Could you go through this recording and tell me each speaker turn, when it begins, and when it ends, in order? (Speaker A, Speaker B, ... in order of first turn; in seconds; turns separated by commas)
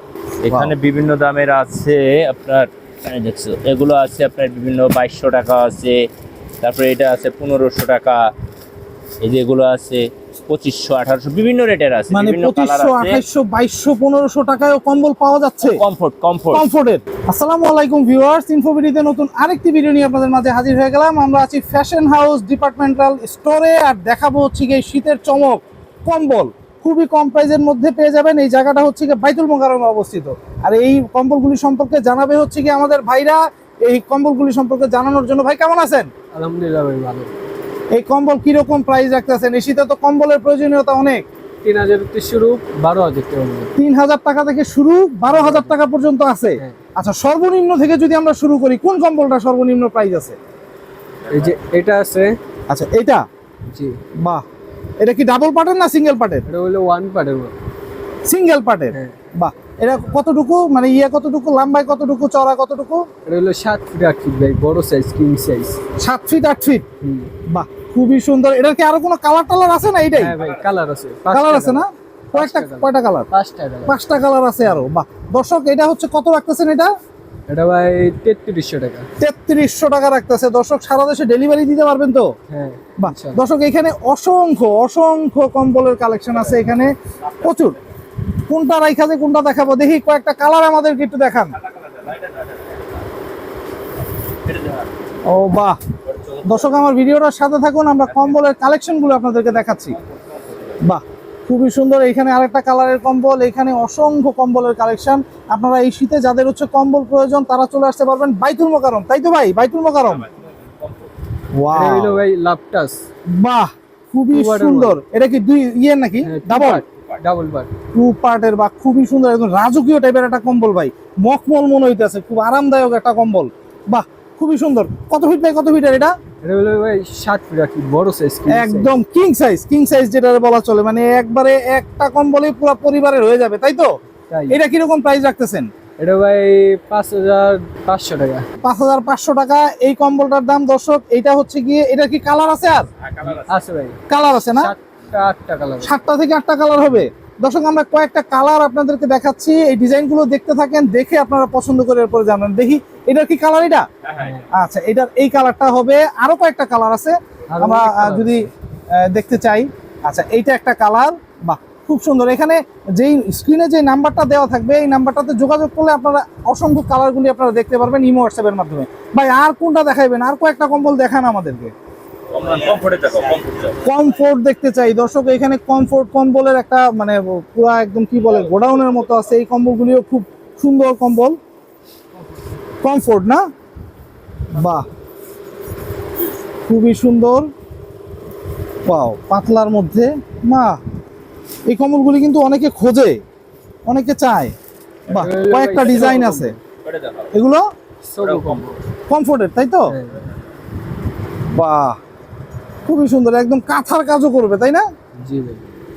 Speaker A: 0.4-6.0, Speaker B: 0.5-0.7, Speaker A: 6.6-8.3, Speaker A: 9.2-13.2, Speaker B: 12.1-15.8, Speaker A: 15.6-16.6, Speaker B: 16.5-36.1, Speaker C: 36.3-37.4, Speaker B: 37.9-41.2, Speaker C: 41.6-43.7, Speaker B: 43.8-50.4, Speaker C: 45.3-45.8, Speaker C: 51.3-52.4, Speaker B: 52.7-53.2, Speaker C: 53.7-54.0, Speaker B: 55.0-56.4, Speaker C: 56.5-57.5, Speaker B: 58.2-63.0, Speaker C: 63.2-65.8, Speaker B: 66.0-66.8, Speaker C: 67.0-67.3, Speaker B: 67.5-70.3, Speaker C: 70.2-71.8, Speaker A: 70.3-70.6, Speaker B: 71.3-73.3, Speaker C: 72.3-74.0, Speaker B: 73.9-76.9, Speaker C: 77.5-79.0, Speaker B: 79.2-82.2, Speaker C: 82.5-83.4, Speaker B: 83.0-87.8, Speaker B: 88.5-91.6, Speaker A: 91.6-92.9, Speaker A: 94.5-94.9, Speaker B: 95.2-95.8, Speaker A: 96.1-96.7, Speaker B: 96.4-100.0, Speaker A: 98.1-98.4, Speaker A: 99.9-100.8, Speaker B: 100.8-110.2, Speaker A: 110.1-111.1, Speaker B: 111.5-112.2, Speaker C: 111.7-113.0, Speaker B: 113.3-116.8, Speaker C: 114.3-115.0, Speaker C: 116.2-117.7, Speaker B: 117.9-126.2, Speaker C: 126.4-128.9, Speaker B: 128.5-133.9, Speaker C: 134.3-134.6, Speaker B: 134.5-135.7, Speaker C: 136.0-138.5, Speaker B: 138.6-142.9, Speaker A: 143.0-143.5, Speaker C: 143.3-144.0, Speaker B: 144.1-144.7, Speaker C: 144.5-146.0, Speaker B: 145.8-153.9, Speaker A: 154.0-154.4, Speaker C: 154.2-154.4, Speaker B: 154.5-171.7, Speaker C: 157.5-158.5, Speaker A: 172.3-173.8, Speaker B: 173.8-181.4, Speaker B: 182.8-183.4, Speaker B: 184.5-184.9, Speaker B: 186.7-187.5, Speaker B: 188.8-190.8, Speaker B: 191.7-193.2, Speaker B: 193.9-194.5, Speaker A: 195.1-196.2, Speaker B: 195.1-196.6, Speaker C: 195.1-196.6, Speaker A: 196.8-197.3, Speaker B: 197.3-197.7, Speaker C: 198.0-198.8, Speaker A: 198.2-198.8, Speaker B: 199.1-199.9, Speaker C: 199.9-200.1, Speaker B: 201.5-202.0, Speaker B: 202.8-204.8, Speaker C: 205.2-205.8